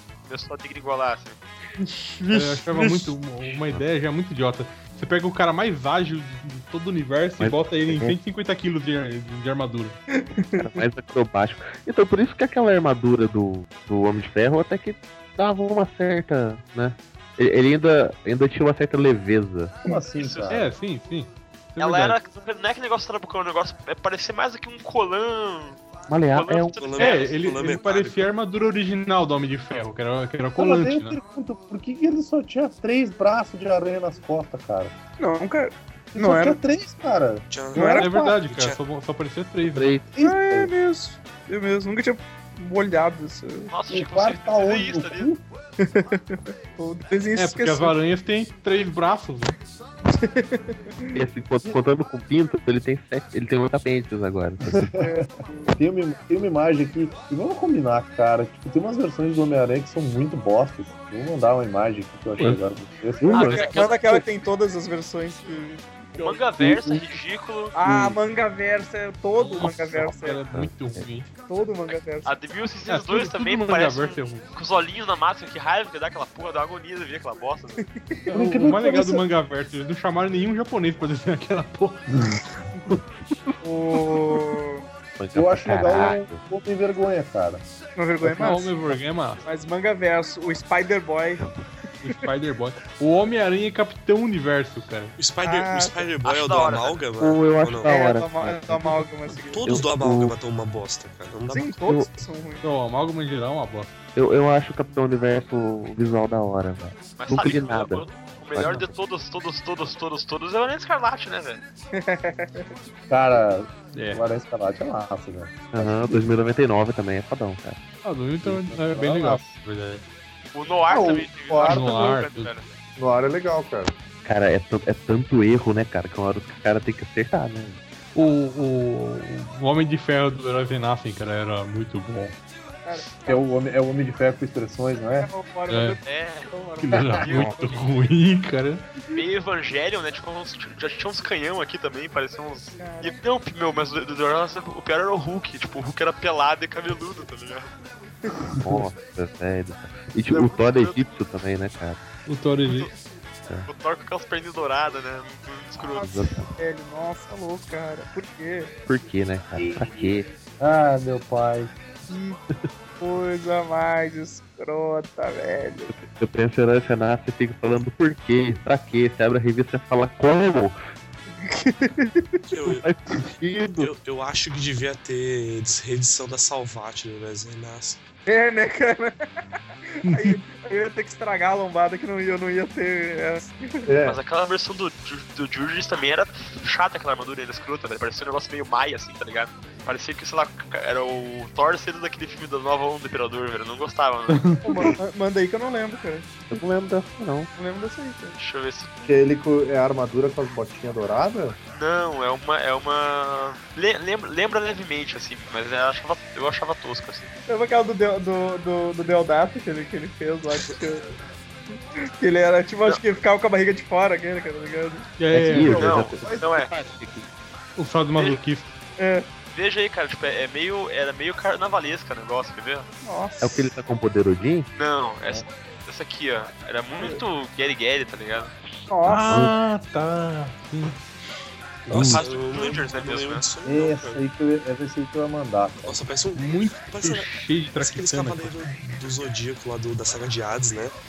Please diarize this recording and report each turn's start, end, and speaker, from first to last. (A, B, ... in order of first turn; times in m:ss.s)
0:00.2-0:01.4 A
0:01.8-0:03.1 B
0:02.3-0:10.0 C
0:03.4-0:03.8 D
0:07.4-0:08.2 D
0:10.1-0:10.8 B
0:10.6-0:19.8 D
0:19.8-0:20.6 E
0:20.1-0:20.6 A
0:20.5-0:22.2 C
0:21.8-0:25.8 A
0:26.1-0:26.8 D
0:26.3-0:27.3 A
0:26.8-0:28.3 F
0:27.0-0:31.2 C
0:30.6-0:34.9 E
0:35.2-0:36.6 B
0:36.1-0:38.4 E
0:37.5-0:38.8 F
0:37.7-0:38.1 B
0:37.9-0:40.0 C
0:39.6-0:40.0 D
0:40.1-0:40.7 E
0:40.2-0:43.7 B
0:43.7-0:45.3 A
0:43.9-0:45.4 E
0:45.8-0:48.0 B
0:47.4-0:49.6 C
0:50.1-0:51.2 B
0:51.1-0:54.9 D
0:54.7-1:03.6 E
0:55.0-0:55.7 B
1:03.2-1:04.2 D
1:03.3-1:04.0 A
1:03.3-1:06.4 B
1:06.2-1:07.7 A
1:06.6-1:07.1 E
1:07.7-1:10.4 B
1:07.9-1:08.2 D
1:09.4-1:11.3 C
1:10.5-1:11.1 D
1:11.5-1:12.3 B
1:12.2-1:17.9 A
1:12.9-1:14.5 C
1:18.0-1:18.3 B
1:18.3-1:22.0 C
1:18.3-1:19.2 E
1:22.1-1:22.4 E
1:22.9-1:23.6 D
1:23.6-1:24.8 B
1:25.2-1:26.4 D
1:25.3-1:27.6 E
1:28.0-1:28.8 B
1:28.2-1:29.4 C
1:29.4-1:31.4 B
1:32.0-1:35.2 C
1:35.2-1:38.0 F
1:35.4-1:36.0 B
1:36.2-1:37.0 A
1:37.2-1:39.0 D
1:37.8-1:39.7 B
1:39.4-1:41.7 F
1:39.6-1:40.3 D
1:41.5-1:42.7 B
1:41.6-1:42.1 D
1:42.6-1:43.9 C
1:44.1-1:48.9 D
1:47.2-1:51.6 A
1:51.9-1:52.7 B
1:53.1-1:56.2 E
1:53.9-1:54.2 C
1:55.7-1:57.8 D
1:58.0-2:00.0 C
1:58.4-1:59.6 E
2:00.5-2:02.7 A
2:00.9-2:02.1 E
2:01.6-2:02.5 C
2:03.0-2:03.9 G
2:04.2-2:07.8 D
2:08.1-2:12.4 C
2:12.8-2:13.4 B
2:13.3-2:15.3 E
2:15.2-2:17.2 B
2:15.7-2:16.0 C
2:16.0-2:16.5 A
2:16.8-2:18.9 C
2:17.2-2:17.8 A
2:19.1-2:27.7 A
2:22.8-2:23.2 B
2:28.6-2:32.0 D
2:30.3-2:31.0 A
2:32.3-2:32.9 C
2:33.7-2:36.1 A
2:35.8-2:38.7 B
2:36.0-2:36.5 D
2:38.9-2:40.3 D
2:39.6-2:41.7 E
2:42.1-2:42.4 B
2:43.0-2:45.9 B
2:45.9-2:50.8 D
2:51.4-2:52.4 B
2:52.4-2:52.9 F
2:52.8-2:53.9 D
2:53.8-2:58.0 F
2:58.3-2:59.3 B
2:59.9-3:03.8 B
3:00.0-3:00.4 C
3:03.9-3:04.2 G
3:04.0-3:14.4 A
3:14.3-3:14.7 C
3:14.6-3:16.3 B
3:16.5-3:17.5 D
3:17.6-3:18.4 B
3:18.4-3:19.0 A
3:19.0-3:21.6 G
3:21.7-3:27.3 A
3:27.5-3:31.1 B
3:32.2-3:35.8 B
3:35.2-3:35.9 C
3:35.3-3:37.3 D
3:35.7-3:36.7 A
3:37.8-3:38.7 C
3:38.1-3:38.4 A
3:39.0-3:39.3 B
3:39.5-3:42.9 A
3:43.0-3:43.7 B
3:43.4-3:44.7 D
3:44.7-3:48.5 A
3:48.9-3:49.3 B
3:49.0-3:51.0 C
3:49.3-3:49.6 D
3:51.9-3:52.2 E
3:51.9-3:52.2 D
3:52.0-3:53.4 A
3:52.0-3:54.2 F
3:53.6-3:56.0 E
3:55.8-4:00.9 F
3:56.4-3:58.6 C